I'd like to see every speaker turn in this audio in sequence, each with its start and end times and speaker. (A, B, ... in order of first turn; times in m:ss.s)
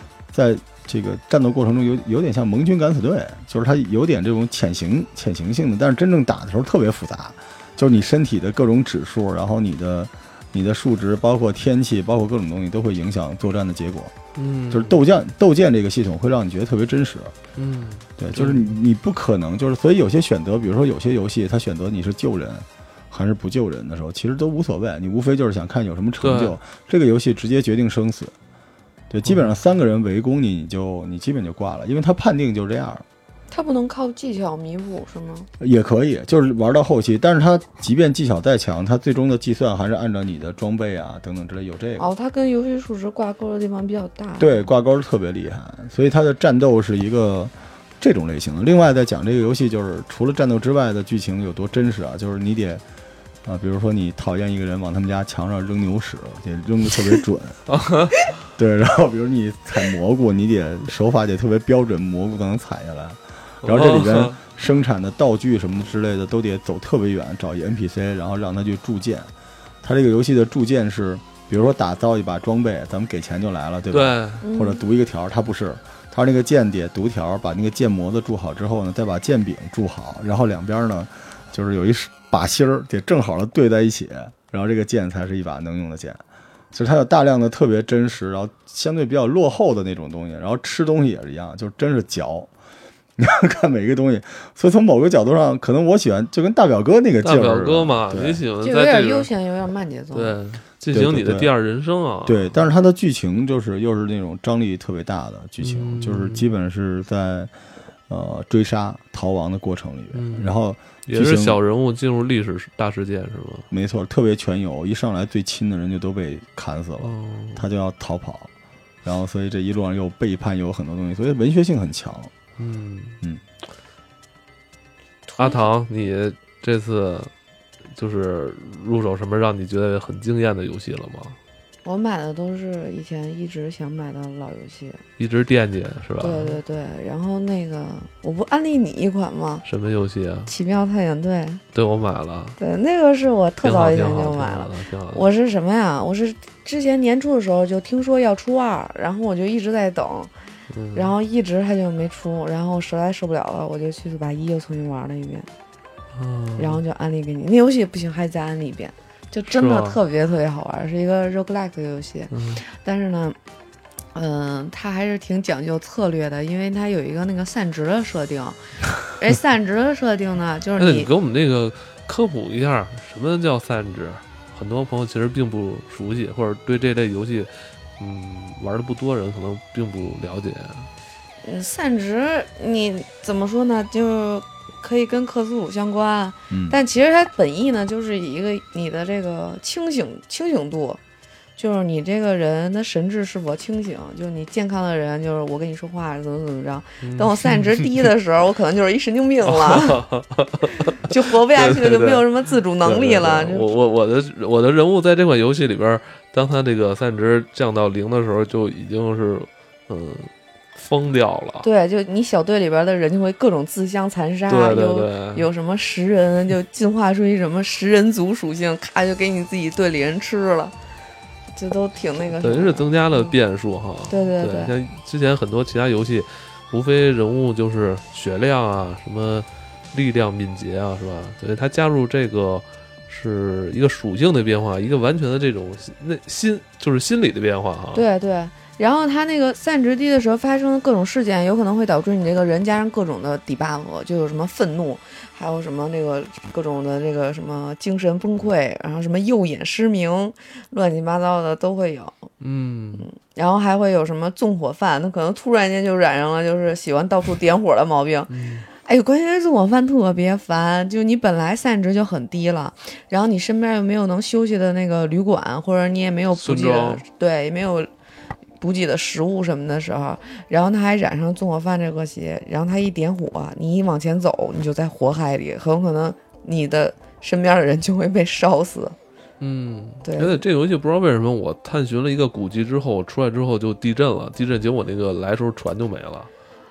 0:00.3-0:14.1 A
0:14.4-0:15.0 B
0:14.7-0:17.4 A
0:17.6-0:18.8 B
0:18.2-0:28.3 A
0:26.2-0:26.6 B
0:29.1-0:33.0 A
0:29.2-0:29.6 B
0:33.5-0:35.5 C
0:35.6-0:42.1 A
0:42.0-0:44.6 C
0:44.4-0:52.8 A
0:53.4-0:57.6 A
0:57.7-0:58.3 B
0:58.6-1:09.3 A
1:03.6-1:04.4 B
1:09.8-1:26.2 A
1:13.9-1:14.4 B
1:14.4-1:14.8 C
1:26.7-1:32.5 A
1:33.2-1:38.4 A
1:37.2-1:39.3 B
1:38.6-1:40.4 C
1:40.1-1:42.5 B
1:40.9-1:41.5 A
1:42.2-1:47.5 A
1:45.6-1:46.5 B
1:48.1-1:51.6 A
1:50.1-1:50.5 B
1:51.1-1:53.7 B
1:53.7-1:58.5 A
1:57.0-1:57.6 B
1:59.0-2:02.3 A
2:02.6-2:03.2 B
2:05.3-2:05.6 C
2:05.4-2:07.3 B
2:07.9-2:11.4 B
2:11.8-2:15.0 C
2:15.2-2:16.6 B
2:16.2-2:19.6 C
2:19.6-2:20.5 B
2:20.5-2:21.6 C
2:21.7-2:22.6 B
2:22.6-2:30.3 C
2:23.6-2:25.2 B
2:30.7-2:31.1 B
2:30.9-2:35.5 C
2:36.1-2:36.8 B
2:36.6-2:43.4 C
2:39.5-2:40.0 B
2:42.3-2:42.6 B
2:44.1-2:51.1 C
2:50.8-3:00.9 B
3:01.4-3:11.0 C
3:06.5-3:06.8 A
3:11.6-3:20.0 C
3:17.0-3:18.1 B
3:19.4-3:31.7 B
3:20.8-3:23.7 C
3:31.6-3:40.7 C
3:34.5-3:35.5 B
3:41.6-3:43.3 C
3:42.4-3:58.0 B
3:44.1-3:44.7 C
3:57.9-4:12.3 C
4:12.4-4:13.1 B
4:13.0-4:27.9 C
4:18.3-4:18.7 B
4:26.3-4:27.0 B
4:28.6-4:39.0 C
4:39.4-4:46.3 B
4:40.0-4:40.4 C